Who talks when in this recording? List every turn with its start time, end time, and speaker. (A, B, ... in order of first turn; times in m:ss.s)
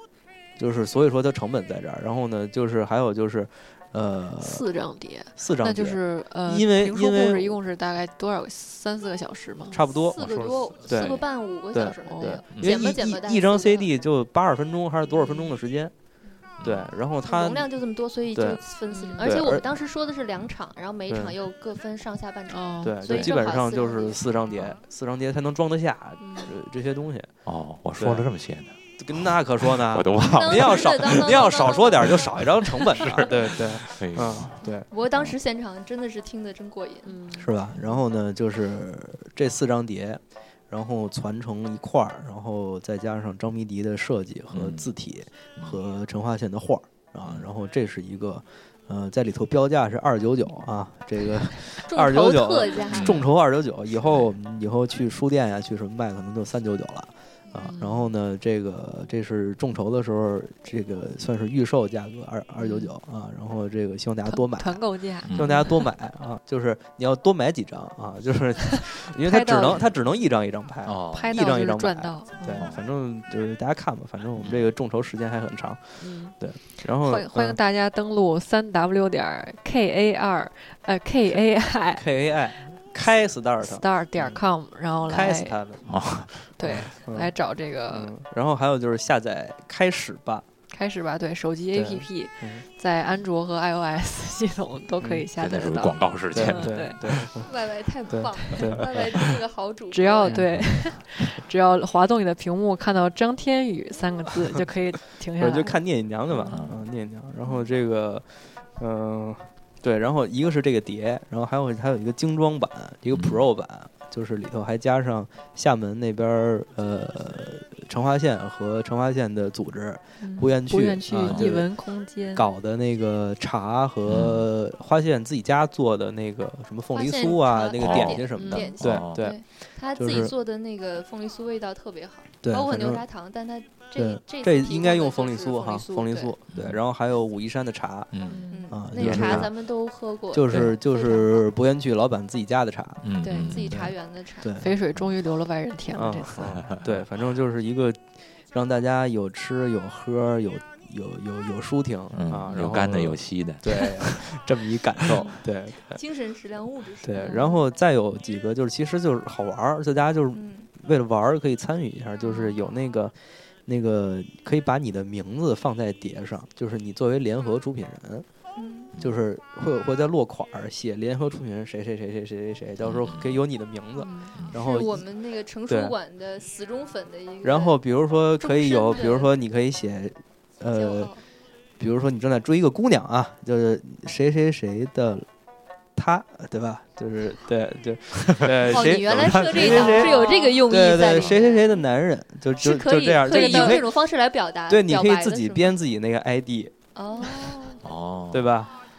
0:00.6-0:04.6 A
0:04.4-0:09.8 B
0:05.4-0:07.6 A
0:09.7-0:15.9 A
0:09.7-0:13.9 C
0:10.2-0:11.2 D
0:12.0-0:12.4 B
0:16.6-0:16.9 D
0:16.6-0:17.7 A
0:17.2-0:24.2 C
0:18.3-0:18.6 A
0:18.9-0:19.3 B
0:19.2-0:19.6 A
0:21.1-0:21.3 A
0:22.5-0:23.2 B
0:22.8-0:27.3 A
0:27.4-0:34.6 D
0:28.0-0:28.2 A
0:29.0-0:34.9 A
0:30.2-0:32.4 C
0:34.9-0:37.2 C
0:37.0-0:37.5 B
0:37.4-1:17.6 A
0:44.5-0:44.9 D
0:51.8-0:53.2 C
0:52.9-0:53.2 D
0:54.0-0:54.3 D
0:57.7-0:58.0 B
1:02.6-1:02.9 B
1:04.3-1:05.8 B
1:05.2-1:05.7 D
1:09.2-1:09.8 B
1:10.8-1:11.4 D
1:11.1-1:12.7 B
1:12.5-1:12.8 D
1:14.4-1:14.6 D
1:16.0-1:16.4 B
1:17.0-1:22.0 B
1:22.0-1:24.4 A
1:23.6-1:25.6 B
1:25.0-1:27.3 A
1:25.9-1:26.3 D
1:26.6-1:28.1 B
1:27.9-1:30.4 A
1:30.7-1:37.0 B
1:31.7-1:32.6 A
1:35.0-1:35.2 A
1:35.4-1:36.9 D
1:36.3-1:37.5 A
1:37.4-1:40.4 C
1:38.1-1:39.3 A
1:39.9-1:45.8 B
1:40.5-1:40.8 D
1:45.4-2:01.7 A
1:46.3-1:46.8 D
1:53.1-1:53.4 D
2:00.2-2:02.5 B
2:01.2-2:01.5 D
2:02.3-2:09.4 A
2:04.1-2:04.4 D
2:06.9-2:16.3 C
2:07.8-2:09.2 D
2:08.4-2:08.7 B
2:09.9-2:10.3 A
2:12.4-2:13.0 A
2:13.9-2:18.1 A
2:16.5-2:16.8 D
2:18.1-2:18.4 D
2:18.3-2:18.7 B
2:18.5-2:21.4 C
2:18.7-2:19.5 A
2:18.9-2:19.5 D
2:20.3-2:24.7 A
2:23.0-2:23.8 D
2:23.2-2:24.6 C
2:24.6-2:26.5 B
2:25.9-2:36.0 A
2:26.6-2:27.0 D
2:32.1-2:34.2 D
2:35.9-2:37.6 C
2:37.0-2:43.1 A
2:37.2-2:37.5 B
2:40.3-2:40.7 C
2:43.6-2:48.2 A
2:48.6-2:48.9 C
2:49.0-2:55.0 A
2:52.8-2:53.4 D
2:54.0-2:54.4 B
2:54.5-2:57.8 C
2:55.7-2:55.9 A
2:57.4-3:01.1 A
2:58.4-2:59.3 C
3:00.7-3:01.2 C
3:01.8-3:05.2 A
3:06.0-3:13.9 A
3:08.5-3:09.7 D
3:08.6-3:11.8 C
3:09.7-3:10.6 B
3:12.6-3:15.8 C
3:13.3-3:13.9 B
3:14.7-3:16.7 A
3:16.9-3:17.8 C
3:17.8-3:18.5 D
3:18.3-3:18.7 A